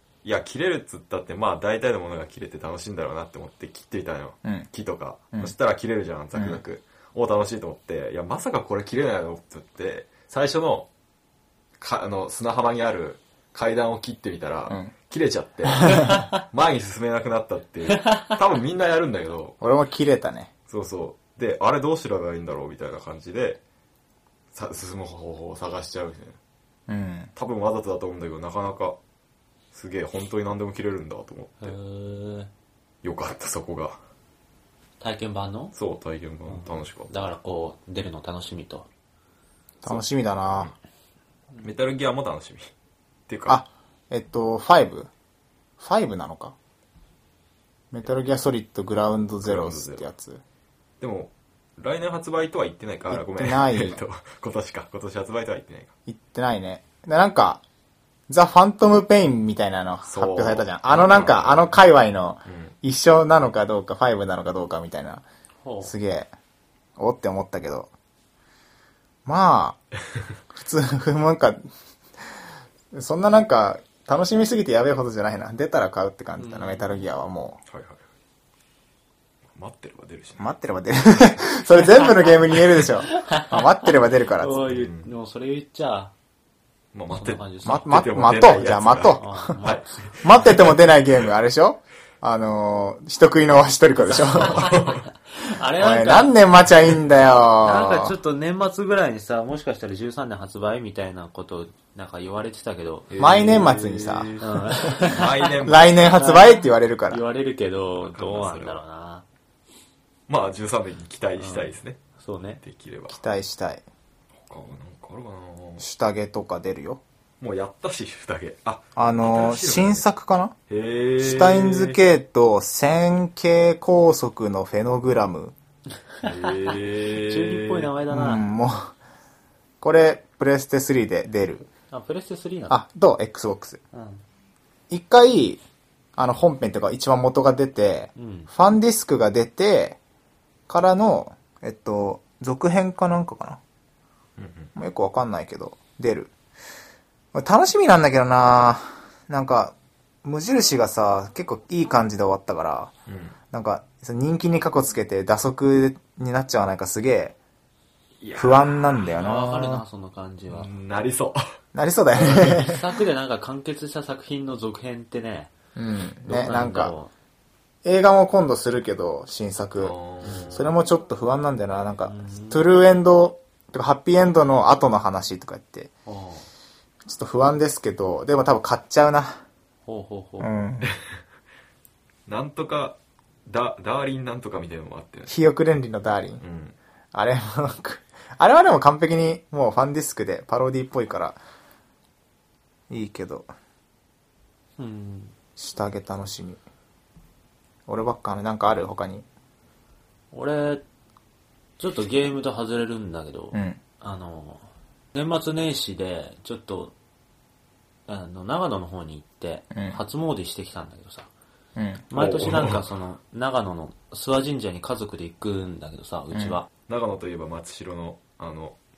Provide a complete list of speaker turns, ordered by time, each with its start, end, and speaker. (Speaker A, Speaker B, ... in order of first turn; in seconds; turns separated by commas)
Speaker A: 0.2-10.9, Speaker B: 6.3-6.6, Speaker A: 11.8-19.6, Speaker B: 15.8-16.2, Speaker C: 16.0-16.4, Speaker C: 18.0-18.3, Speaker B: 19.6-20.5, Speaker A: 20.7-23.6, Speaker A: 24.5-26.4, Speaker B: 26.9-27.3, Speaker A: 27.4-29.0, Speaker A: 29.7-31.8, Speaker C: 31.6-32.5, Speaker A: 33.0-34.0, Speaker C: 35.0-35.7, Speaker A: 35.8-37.1, Speaker C: 36.5-38.9, Speaker B: 39.8-40.7, Speaker A: 41.6-42.7, Speaker A: 43.3-43.6, Speaker B: 43.5-45.1, Speaker B: 45.8-46.5, Speaker B: 47.9-50.4, Speaker A: 49.4-50.0, Speaker A: 51.0-55.9, Speaker B: 53.1-54.0, Speaker B: 56.1-57.6, Speaker B: 58.3-65.2, Speaker A: 60.1-61.7, Speaker A: 62.5-62.7, Speaker C: 65.6-65.9, Speaker B: 65.8-66.3, Speaker B: 67.0-67.9, Speaker B: 69.3-69.8, Speaker B: 70.5-71.6, Speaker B: 72.9-77.6, Speaker C: 76.4-76.9, Speaker A: 77.7-78.0, Speaker A: 79.5-80.5, Speaker B: 80.4-84.6, Speaker C: 83.1-86.1, Speaker A: 84.7-85.1, Speaker A: 86.9-91.3, Speaker C: 87.1-87.9, Speaker B: 87.7-89.4, Speaker C: 89.2-90.0, Speaker B: 90.2-94.8, Speaker A: 94.3-95.0, Speaker C: 94.4-94.7, Speaker C: 95.3-96.4, Speaker B: 95.8-98.2, Speaker C: 97.6-103.1, Speaker A: 103.1-106.3, Speaker B: 103.2-104.3, Speaker C: 104.4-105.5, Speaker B: 105.6-107.2, Speaker C: 106.1-109.2, Speaker A: 108.0-108.8, Speaker A: 110.3-112.0, Speaker C: 111.4-112.6, Speaker A: 112.6-113.2, Speaker B: 113.1-113.8, Speaker A: 114.4-115.8, Speaker B: 115.8-117.0, Speaker A: 117.4-120.0, Speaker B: 119.0-120.5, Speaker A: 120.7-122.0, Speaker B: 121.2-125.5, Speaker C: 126.2-128.4, Speaker A: 126.2-127.9, Speaker B: 128.1-128.9, Speaker B: 129.8-131.7, Speaker C: 131.9-132.8, Speaker B: 132.7-133.8, Speaker C: 133.9-134.2, Speaker B: 134.9-135.6, Speaker B: 136.2-140.0, Speaker C: 138.2-138.5, Speaker B: 140.7-143.6, Speaker A: 144.4-144.7, Speaker B: 144.8-146.3, Speaker B: 147.3-152.9, Speaker A: 153.1-153.4, Speaker B: 153.5-157.3, Speaker A: 158.2-159.7, Speaker B: 158.4-159.7, Speaker C: 159.2-160.7, Speaker A: 160.5-161.4, Speaker B: 161.7-162.8, Speaker C: 162.4-165.5, Speaker B: 165.8-166.9, Speaker C: 166.3-167.1, Speaker B: 167.8-169.9, Speaker A: 169.8-170.7, Speaker C: 170.2-170.6, Speaker B: 170.5-175.9, Speaker C: 172.1-172.7, Speaker C: 176.1-176.5, Speaker B: 177.1-179.4, Speaker C: 179.9-180.5, Speaker B: 180.4-180.9, Speaker A: 180.8-181.2, Speaker A: 182.3-185.4, Speaker B: 185.3-186.4, Speaker A: 186.4-186.8, Speaker B: 187.1-191.4, Speaker B: 192.9-193.5, Speaker C: 194.8-195.3, Speaker B: 195.6-196.6, Speaker B: 197.9-199.3, Speaker C: 200.3-200.8, Speaker C: 201.8-206.9, Speaker B: 203.5-203.8, Speaker C: 208.1-211.3, Speaker B: 211.8-212.1, Speaker C: 212.1-216.7, Speaker A: 212.2-212.9, Speaker B: 216.3-216.6, Speaker A: 216.9-218.8